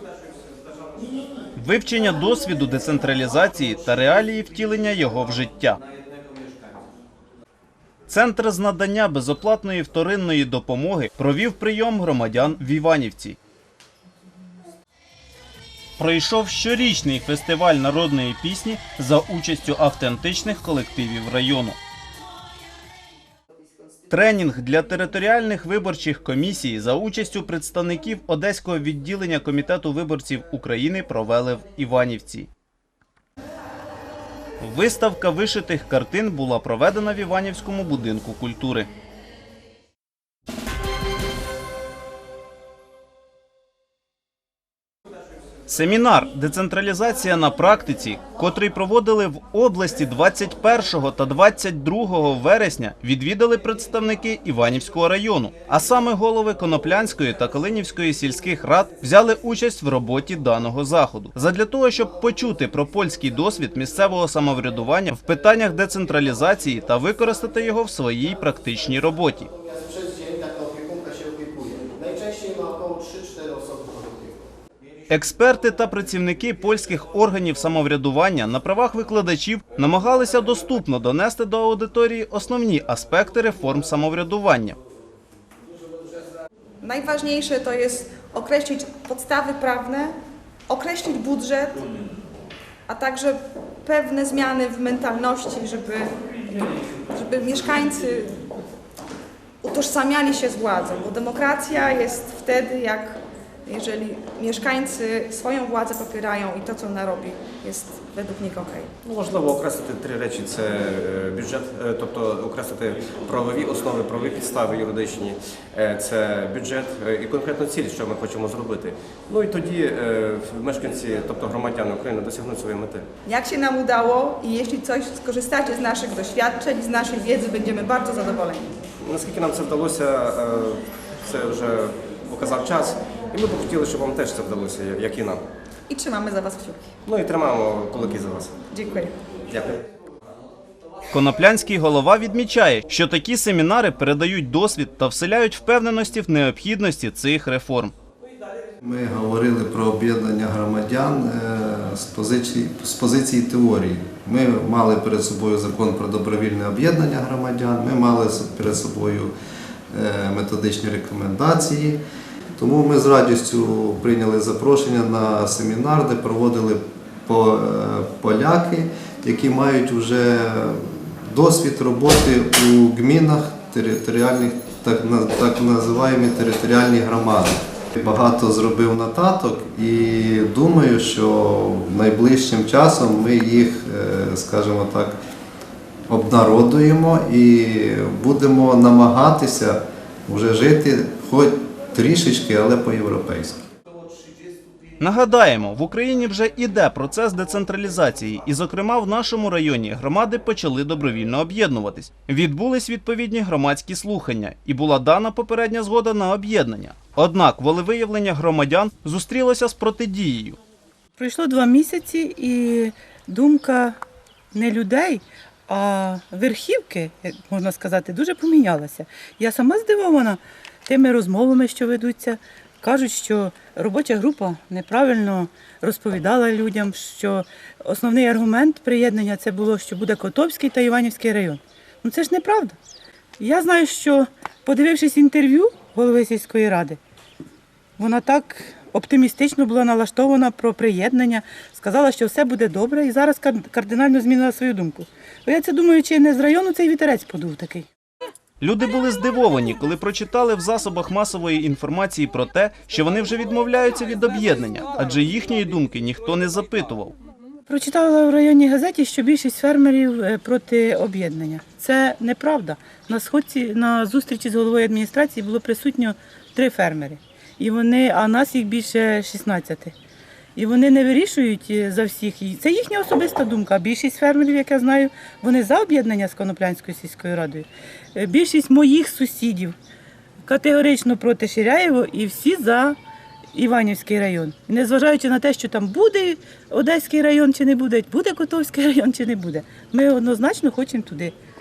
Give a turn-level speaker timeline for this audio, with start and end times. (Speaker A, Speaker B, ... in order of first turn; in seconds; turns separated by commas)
Speaker A: 1.6-5.8, Speaker A: 8.1-13.4, Speaker A: 16.0-21.8, Speaker A: 24.1-32.5, Speaker A: 34.6-38.9, Speaker A: 45.7-69.5, Speaker A: 75.1-84.8, Speaker B: 86.8-90.2, Speaker B: 90.7-91.8, Speaker B: 92.9-98.4, Speaker B: 99.6-108.9, Speaker C: 109.0-123.1, Speaker B: 123.2-128.8, Speaker C: 129.0-135.4, Speaker B: 135.9-136.9, Speaker C: 137.1-138.6, Speaker B: 138.7-139.2, Speaker C: 139.5-139.8, Speaker A: 141.1-147.9, Speaker D: 148.8-159.3, Speaker D: 159.9-162.0, Speaker D: 162.6-185.2, Speaker D: 186.1-193.6, Speaker A: 195.0-210.6, Speaker E: 211.2-214.0, Speaker E: 214.5-232.8, Speaker E: 233.4-237.0, Speaker E: 238.0-247.9, Speaker A: 248.6-257.1, Speaker E: 257.7-269.9, Speaker E: 270.6-279.8, Speaker E: 280.4-282.9, Speaker E: 283.5-291.3